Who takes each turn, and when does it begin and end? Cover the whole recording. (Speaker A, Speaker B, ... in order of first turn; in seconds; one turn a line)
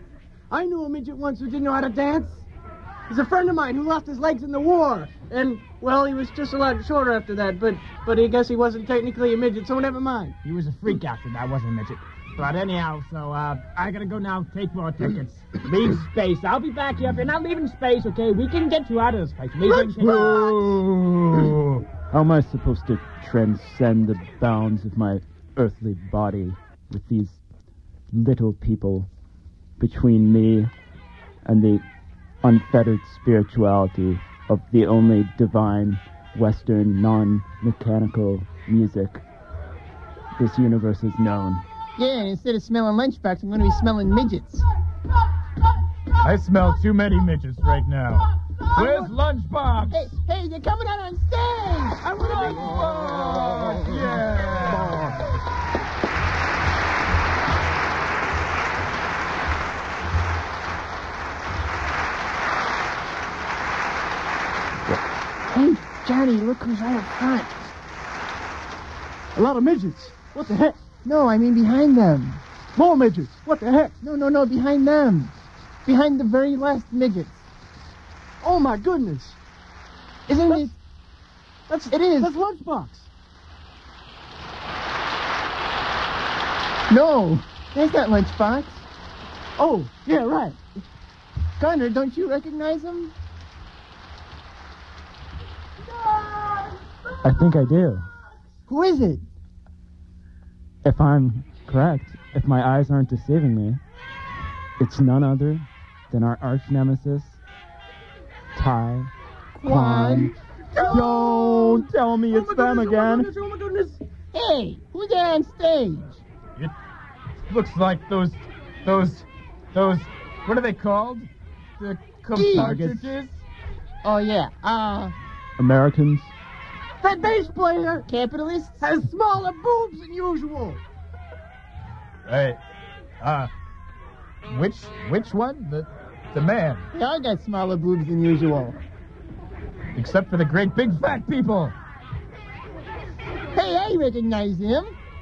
Speaker A: 0.5-2.4
Speaker A: 3.1-10.3
Speaker B: 10.4-20.5
Speaker C: 19.7-21.8
Speaker D: 22.1-27.4
Speaker D: 28.1-29.1
Speaker D: 29.8-30.7
Speaker D: 31.4-31.8
Speaker D: 32.4-39.2
Speaker D: 40.4-41.6
Speaker E: 42.0-44.6
Speaker C: 46.2-50.0
Speaker E: 48.8-49.1
Speaker E: 49.9-52.2
Speaker C: 52.0-55.2
Speaker E: 65.5-67.7
Speaker A: 69.3-70.8
Speaker E: 71.0-72.4
Speaker A: 72.8-73.9
Speaker E: 74.0-77.4
Speaker A: 78.4-79.4
Speaker E: 80.3-80.8
Speaker A: 81.7-83.1
Speaker E: 81.9-82.3
Speaker E: 86.9-88.8
Speaker A: 89.6-90.6
Speaker E: 91.6-93.1
Speaker D: 97.2-98.1
Speaker E: 98.7-99.2
Speaker D: 100.8-103.8
Speaker D: 104.8-107.4
Speaker D: 108.5-109.1
Speaker E: 109.6-110.3
Speaker D: 109.6-113.3
Speaker A: 110.7-114.0
Speaker E: 114.3-116.2
Speaker C: 117.5-121.3
Speaker C: 121.8-123.4
Speaker E: 122.4-122.9
Speaker D: 122.5-123.0
Speaker E: 124.0-125.1
Speaker D: 125.6-126.3
Speaker A: 127.0-128.1
Speaker E: 128.1-128.8
Speaker A: 128.8-130.8
Speaker C: 132.3-132.6
Speaker C: 133.2-133.5
Speaker C: 134.5-136.8
Speaker E: 136.9-138.8
Speaker C: 139.9-141.8
Speaker E: 143.5-144.9